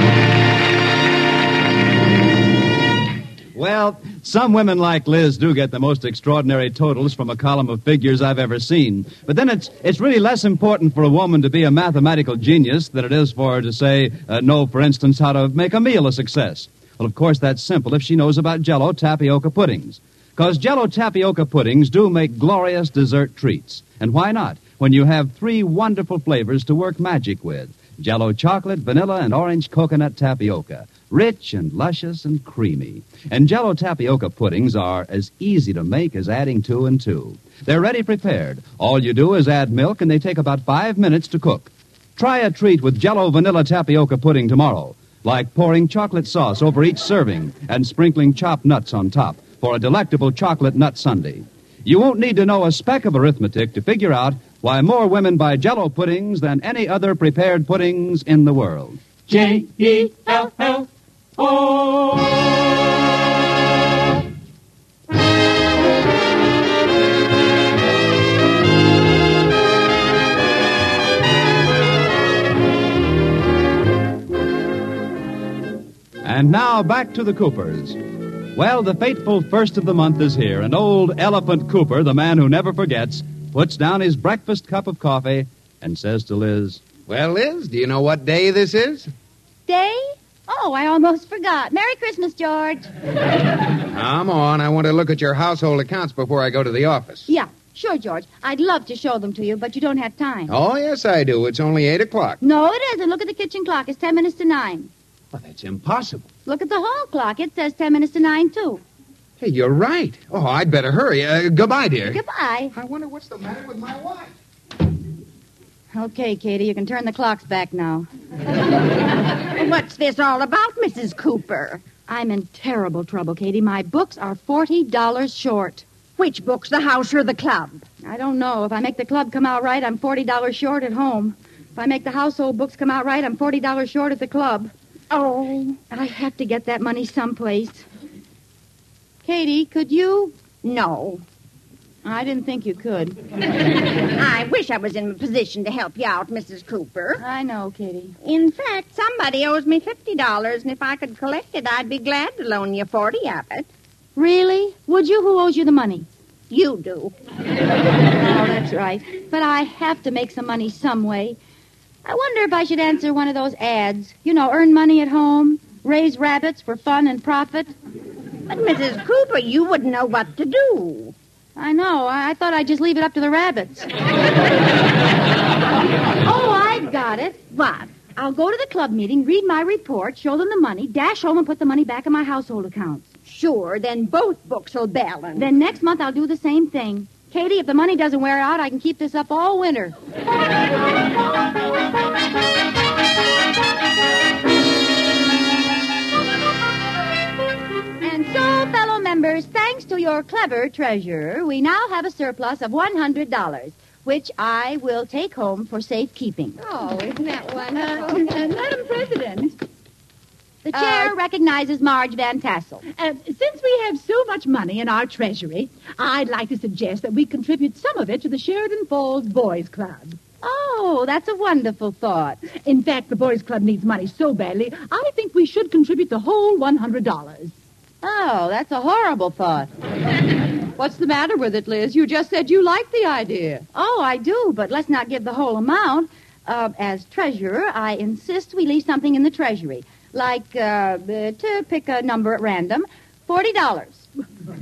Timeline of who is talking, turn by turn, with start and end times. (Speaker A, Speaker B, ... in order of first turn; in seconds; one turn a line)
Speaker A: 3.5-59.0
Speaker B: 59.3-62.5
Speaker A: 76.2-78.0
Speaker A: 78.5-86.8
Speaker C: 87.1-89.1
Speaker D: 89.7-92.9
Speaker C: 93.9-97.3
Speaker D: 97.3-100.5
Speaker C: 100.5-102.4
Speaker D: 102.4-104.9
Speaker C: 105.3-106.3
Speaker D: 106.5-108.8
Speaker C: 109.4-112.2
Speaker D: 112.1-112.7
Speaker C: 112.7-114.3
Speaker D: 115.9-118.0
Speaker E: 119.5-121.8
Speaker D: 122.1-125.8
Speaker E: 126.2-127.8
Speaker D: 128.0-134.7
Speaker E: 135.1-135.8
Speaker D: 135.9-137.8
Speaker D: 139.2-140.3
Speaker E: 140.6-141.2
Speaker D: 142.0-143.2
Speaker E: 144.1-147.2
Speaker D: 147.2-148.2
Speaker E: 148.2-153.7
Speaker D: 154.2-156.1
Speaker E: 156.5-157.1
Speaker D: 158.2-161.4
Speaker D: 162.0-167.7
Speaker E: 168.5-171.1
Speaker D: 171.6-173.9
Speaker D: 176.2-177.5
Speaker E: 177.5-178.0
Speaker D: 178.1-183.0
Speaker E: 183.2-185.5
Speaker D: 185.4-189.9
Speaker D: 198.0-206.6
Speaker E: 206.6-208.4
Speaker F: 207.7-209.5
Speaker D: 210.6-212.8
Speaker E: 210.7-211.1
Speaker F: 212.9-220.2
Speaker D: 220.4-222.4
Speaker F: 222.5-227.5
Speaker D: 228.0-229.7
Speaker G: 230.8-233.6
Speaker D: 233.7-244.0